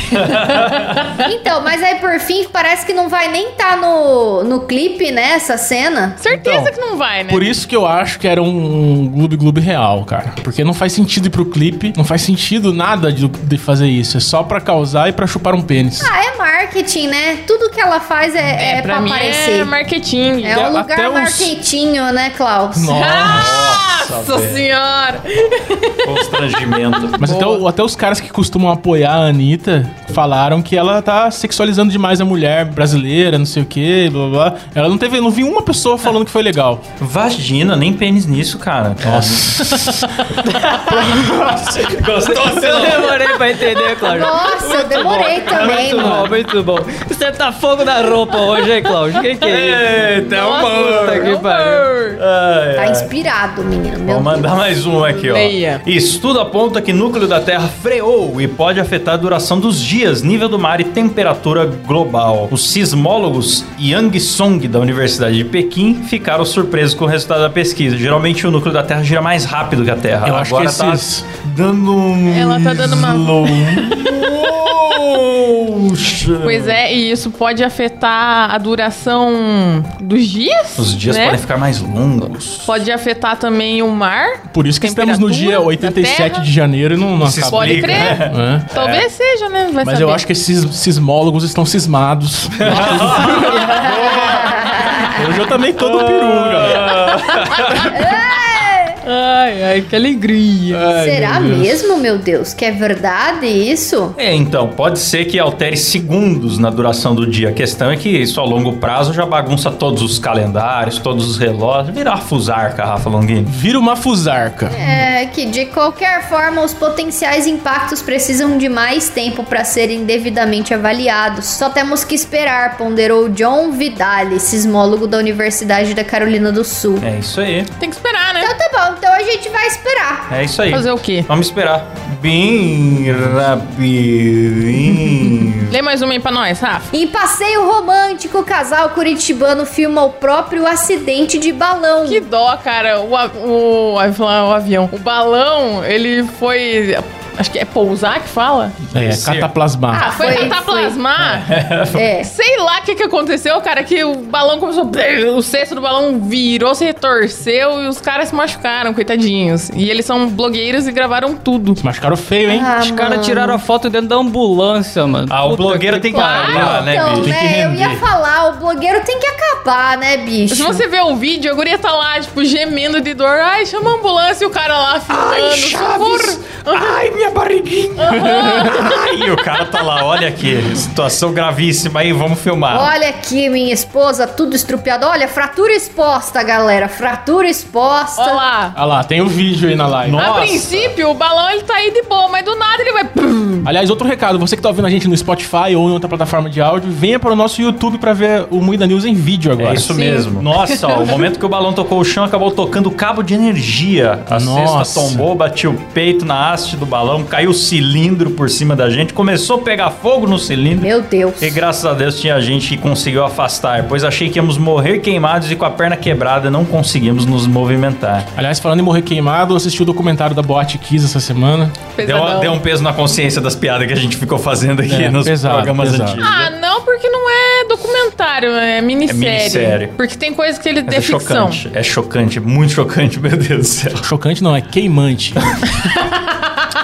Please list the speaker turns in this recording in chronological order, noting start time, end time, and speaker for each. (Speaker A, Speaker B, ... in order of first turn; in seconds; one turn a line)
Speaker A: 0.1-1.1
Speaker B: 1.2-6.2
Speaker C: 6.2-7.5
Speaker D: 6.3-6.7
Speaker D: 7.3-16.1
Speaker B: 16.0-19.7
Speaker C: 18.6-20.7
Speaker B: 20.4-22.9
Speaker D: 20.5-21.5
Speaker D: 22.7-23.4
Speaker C: 22.9-27.6
Speaker A: 23.3-24.6
Speaker A: 26.0-27.2
Speaker D: 27.2-36.8
Speaker A: 37.0-44.0
Speaker D: 39.0-39.9
Speaker E: 40.5-41.4
Speaker D: 40.9-41.6
Speaker E: 42.2-50.0
Speaker B: 44.0-46.3
Speaker A: 45.6-46.4
Speaker A: 49.4-53.1
Speaker C: 50.2-52.2
Speaker B: 52.8-54.8
Speaker A: 54.0-76.8
Speaker C: 55.1-55.8
Speaker D: 70.3-71.1
Speaker C: 72.3-74.0
Speaker C: 76.4-81.4
Speaker A: 80.8-82.7
Speaker C: 82.7-86.5
Speaker D: 84.5-88.7
Speaker A: 87.2-89.0
Speaker C: 87.5-90.2
Speaker D: 89.8-94.5
Speaker A: 92.6-93.8
Speaker C: 93.3-94.0
Speaker B: 93.9-95.0
Speaker D: 95.1-97.0
Speaker A: 95.8-97.9
Speaker C: 97.5-98.2
Speaker B: 97.9-99.0
Speaker C: 99.0-100.9
Speaker D: 100.7-101.6
Speaker B: 100.9-104.2
Speaker A: 104.2-113.5
Speaker D: 113.5-114.7
Speaker B: 114.7-127.0
Speaker A: 127.0-127.7
Speaker C: 127.8-128.5
Speaker B: 128.4-130.3
Speaker A: 130.3-135.7
Speaker C: 130.7-131.3
Speaker C: 135.7-136.9
Speaker B: 136.9-142.3
Speaker C: 142.1-148.8
Speaker A: 148.9-149.5
Speaker D: 148.9-150.1
Speaker C: 149.9-151.5
Speaker B: 150.0-151.0
Speaker A: 151.2-152.1
Speaker B: 151.9-152.3
Speaker C: 152.2-161.8
Speaker D: 161.8-162.7
Speaker B: 162.5-163.6
Speaker E: 162.7-166.6
Speaker A: 165.3-167.5
Speaker C: 166.1-166.8
Speaker D: 166.5-168.0
Speaker B: 166.7-170.8
Speaker C: 170.5-177.0
Speaker A: 175.1-182.9
Speaker C: 178.0-178.9
Speaker B: 182.7-188.4
Speaker C: 188.2-188.8
Speaker D: 188.7-190.2
Speaker A: 190.0-190.9
Speaker C: 190.2-193.7
Speaker D: 193.6-199.9
Speaker A: 199.6-210.9
Speaker C: 199.9-201.1
Speaker D: 204.3-205.2
Speaker B: 210.8-211.6
Speaker A: 211.4-218.3
Speaker D: 218.4-221.8
Speaker C: 221.9-222.6
Speaker A: 222.0-226.5
Speaker D: 224.9-226.2
Speaker C: 226.2-231.6
Speaker A: 229.1-229.9
Speaker A: 230.8-234.0
Speaker D: 234.0-235.3
Speaker C: 235.9-236.2